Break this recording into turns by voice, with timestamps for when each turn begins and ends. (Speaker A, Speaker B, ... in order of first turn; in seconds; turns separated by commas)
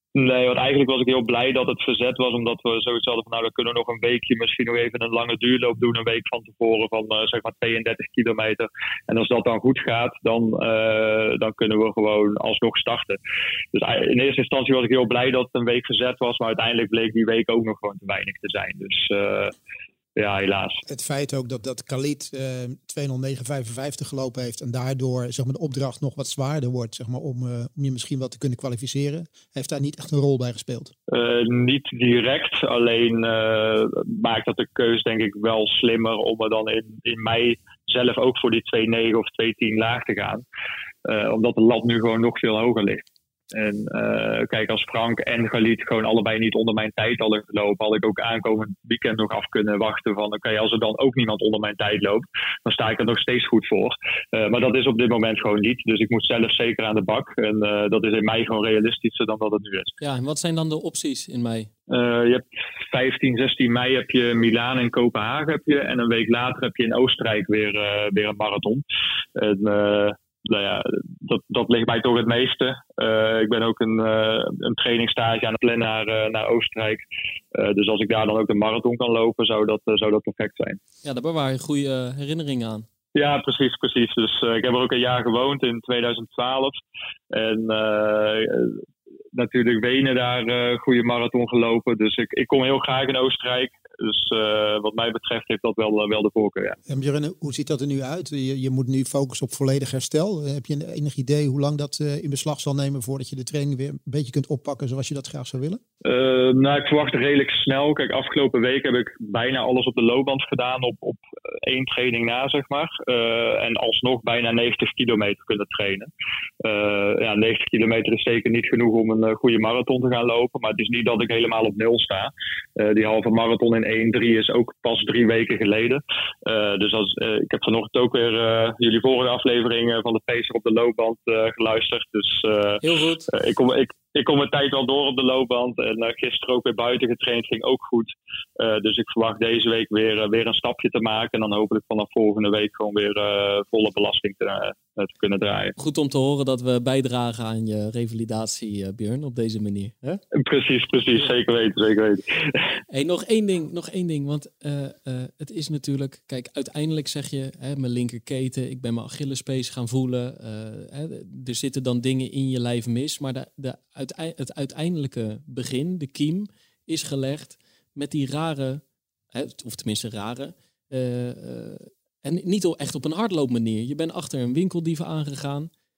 Speaker A: 0.1-13.2, Speaker A: 13.7-19.5, Speaker A: 20.1-20.8, Speaker B: 20.9-30.9, Speaker A: 31.1-40.4, Speaker A: 41.0-59.9, Speaker C: 60.0-61.7, Speaker A: 61.9-68.8, Speaker A: 69.4-77.0, Speaker A: 77.5-80.8, Speaker C: 81.0-82.8, Speaker A: 83.1-86.8, Speaker A: 87.3-88.8, Speaker A: 89.3-96.8, Speaker B: 96.8-105.8, Speaker A: 106.0-116.1, Speaker A: 116.6-145.7, Speaker C: 132.8-133.3, Speaker C: 145.8-150.2, Speaker A: 150.4-152.2, Speaker C: 152.9-168.8, Speaker C: 169.3-175.7